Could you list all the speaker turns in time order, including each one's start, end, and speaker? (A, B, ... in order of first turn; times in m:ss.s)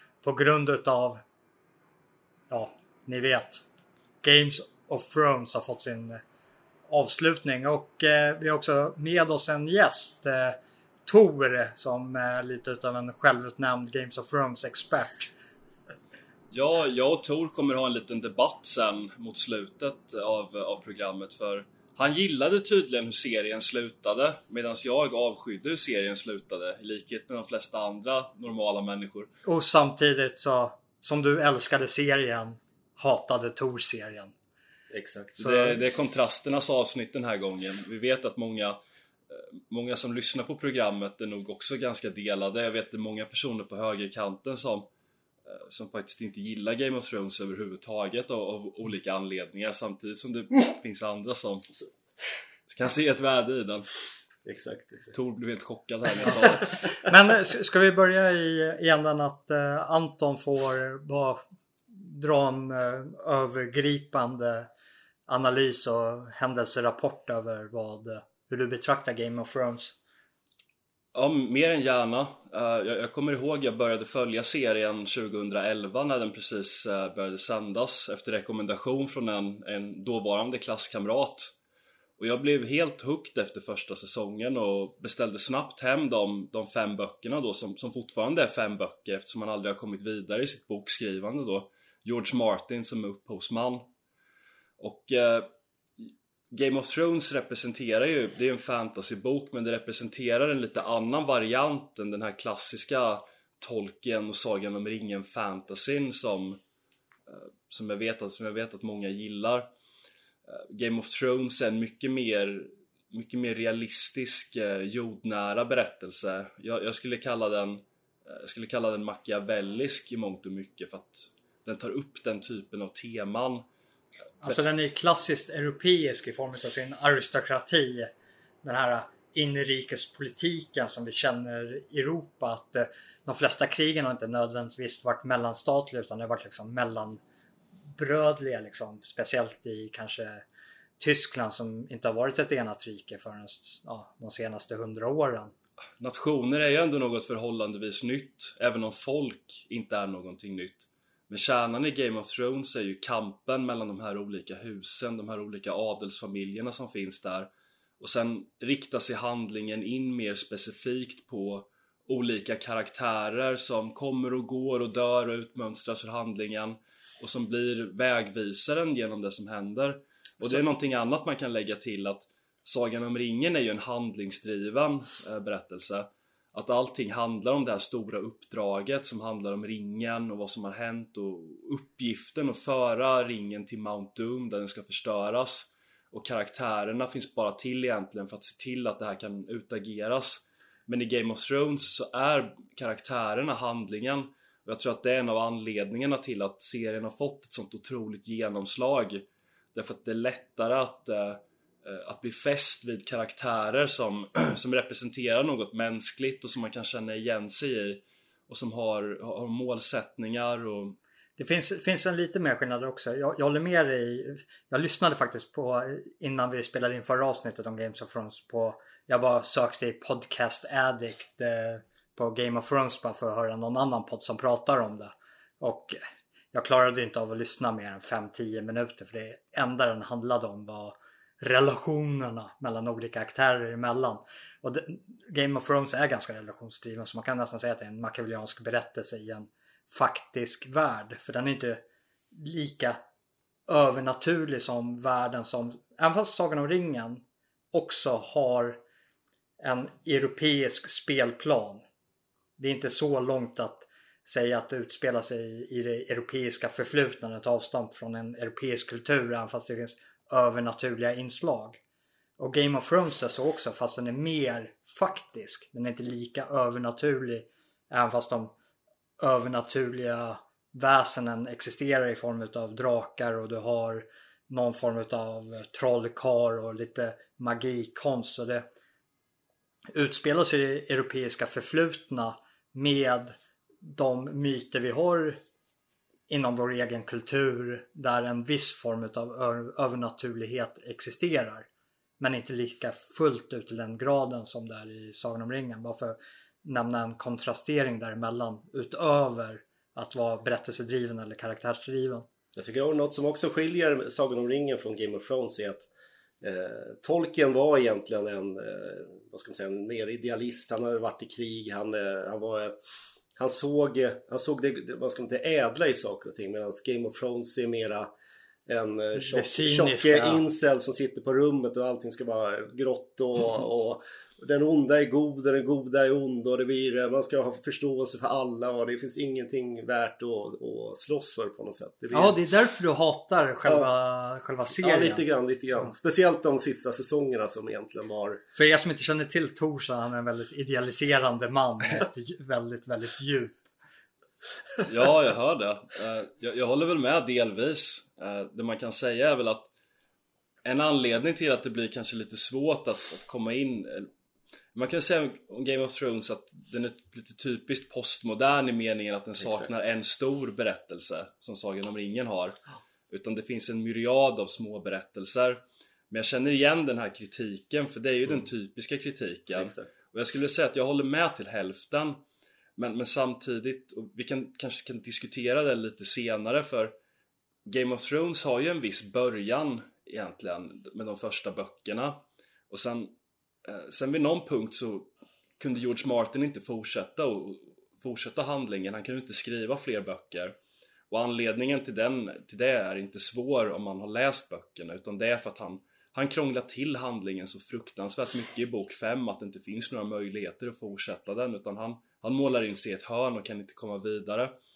0:00.2-0:01.2 A
0:02.5-0:03.6 A
0:04.2-0:06.2 A
0:06.9-0:15.3 A
0:16.5-0:29.3 B
0:29.4-0:34.3 A
0:34.9-0:35.4 C
0:35.4-0:38.8 B
0:35.4-0:35.8 A
0:39.3-0:44.9 B
0:45.5-0:51.7 B
0:52.7-0:53.9 B
0:54.4-0:55.1 C
0:55.1-0:56.9 B
0:57.0-1:01.4 A
1:01.9-1:04.7 A
1:05.3-1:10.0 A
1:11.1-1:21.6 B
1:22.2-1:33.9 B
1:34.8-1:46.6 B
1:47.3-1:49.7 B
1:50.5-2:03.7 B
2:04.4-2:08.1 A
2:08.6-2:17.2 A
2:17.9-2:20.4 A
2:21.0-2:25.5 A
2:26.0-3:31.0 B
3:31.4-3:46.0 A
3:46.5-4:03.0 A
4:03.7-4:08.8 A
4:09.6-4:11.8 A
4:12.6-4:21.8 A
4:22.4-4:28.5 A
4:29.2-4:38.7 A
4:39.9-4:45.4 A
4:46.3-4:51.7 A
4:52.2-5:02.3 A
5:02.6-5:05.9 C
5:06.4-5:12.8 C
5:13.4-5:18.1 C
5:18.7-5:32.4 C
5:19.2-5:20.4 A
5:32.1-5:35.2 A
5:34.7-5:38.4 C
5:38.6-5:43.6 A
5:44.9-5:49.7 B
5:50.6-5:54.1 B
5:54.7-6:02.6 B
6:03.1-6:12.2 B
6:09.6-6:09.9 C
6:12.8-6:16.9 B
6:17.7-6:30.6 B
6:31.1-6:44.6 B